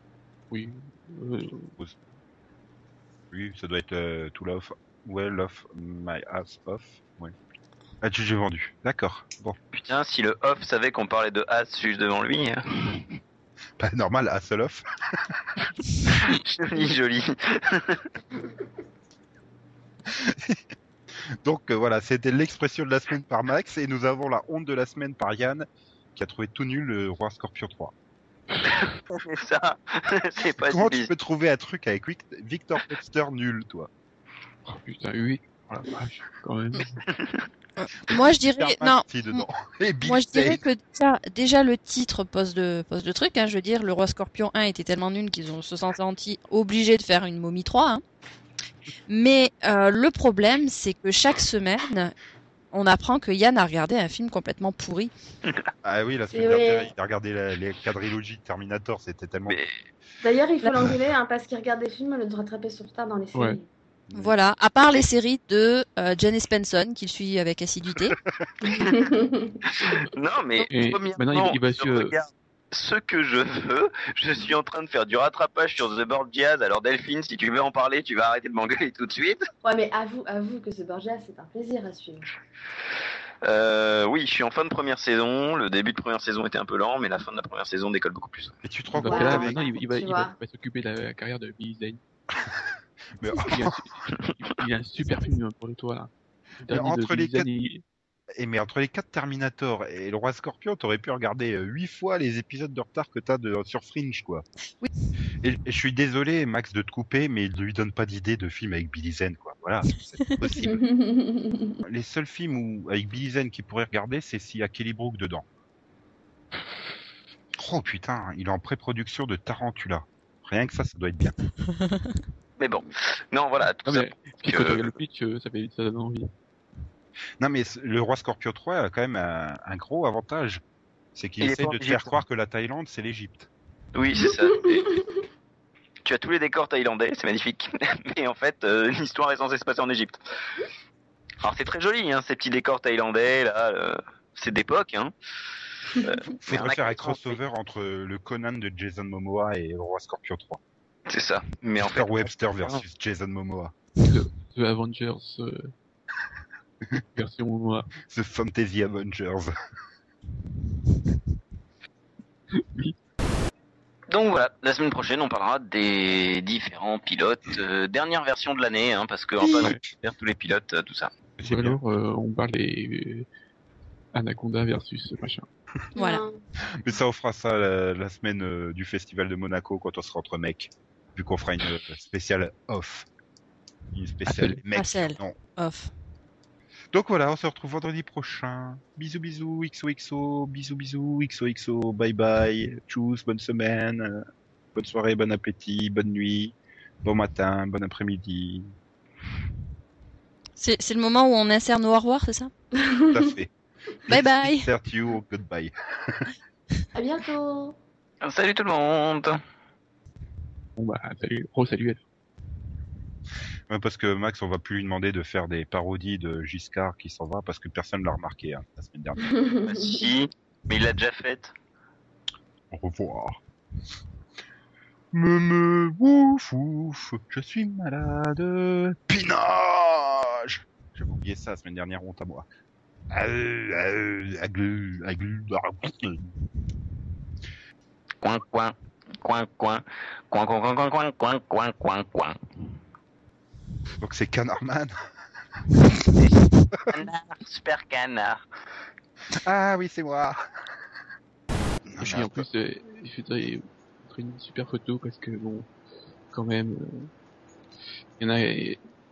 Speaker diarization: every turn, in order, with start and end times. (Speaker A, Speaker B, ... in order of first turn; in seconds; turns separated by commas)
Speaker A: 0.5-1.7, Speaker B: 3.3-7.3, Speaker B: 8.0-9.8, Speaker C: 9.8-12.6, Speaker B: 13.8-14.8, Speaker C: 16.3-18.0, Speaker B: 20.2-20.6, Speaker B: 21.4-27.9, Speaker C: 28.6-31.1, Speaker B: 30.7-33.9, Speaker A: 34.7-37.0, Speaker C: 37.1-37.4, Speaker D: 37.8-39.5, Speaker B: 38.5-40.6, Speaker D: 40.0-48.0, Speaker D: 49.1-52.1, Speaker D: 52.7-55.1, Speaker B: 55.8-59.6, Speaker E: 56.3-56.9, Speaker E: 60.2-63.7, Speaker A: 63.4-63.6, Speaker B: 64.1-64.4, Speaker D: 64.1-68.2, Speaker E: 68.6-69.6, Speaker C: 69.7-79.4, Speaker A: 70.7-72.1, Speaker E: 79.6-82.3, Speaker C: 83.4-88.5, Speaker B: 88.6-89.7, Speaker A: 88.9-92.0, Speaker E: 89.1-90.3, Speaker B: 93.2-93.8, Speaker A: 93.5-96.1, Speaker A: 96.6-97.8, Speaker B: 96.7-97.5, Speaker B: 98.4-104.5, Speaker B: 105.4-110.8, Speaker E: 110.6-111.8, Speaker B: 111.8-115.5, Speaker B: 117.6-121.4, Speaker C: 122.6-125.0, Speaker A: 123.8-126.3, Speaker B: 127.4-130.6, Speaker B: 131.2-133.5, Speaker C: 131.4-132.1, Speaker C: 133.9-134.9, Speaker E: 134.1-135.2, Speaker C: 136.1-140.2, Speaker C: 141.4-145.1, Speaker C: 146.0-147.4, Speaker B: 146.4-150.6, Speaker C: 151.1-152.1, Speaker B: 151.8-153.8, Speaker A: 154.0-155.7, Speaker A: 156.9-157.9, Speaker B: 158.1-159.5, Speaker A: 162.6-162.9, Speaker C: 164.1-171.1, Speaker B: 171.4-171.8, Speaker A: 171.4-173.3, Speaker A: 174.1-175.5, Speaker E: 175.9-176.4, Speaker D: 176.0-176.2, Speaker B: 176.8-183.1, Speaker B: 183.9-185.4, Speaker D: 184.4-185.9, Speaker B: 186.9-194.2, Speaker B: 194.7-198.7, Speaker D: 200.6-202.5, Speaker E: 202.8-203.2, Speaker B: 203.1-203.5, Speaker B: 204.1-206.3, Speaker D: 204.1-204.7, Speaker E: 206.9-207.8, Speaker C: 208.2-209.4, Speaker A: 210.8-212.0, Speaker B: 213.7-219.3, Speaker E: 219.3-220.1, Speaker C: 219.7-221.5, Speaker B: 222.7-223.4, Speaker B: 225.1-232.5, Speaker B: 233.1-236.3, Speaker C: 238.2-242.4, Speaker B: 244.0-244.9, Speaker C: 246.2-248.4, Speaker B: 249.3-250.4, Speaker B: 251.9-252.5, Speaker A: 252.0-255.7, Speaker A: 256.3-257.1, Speaker A: 258.2-258.8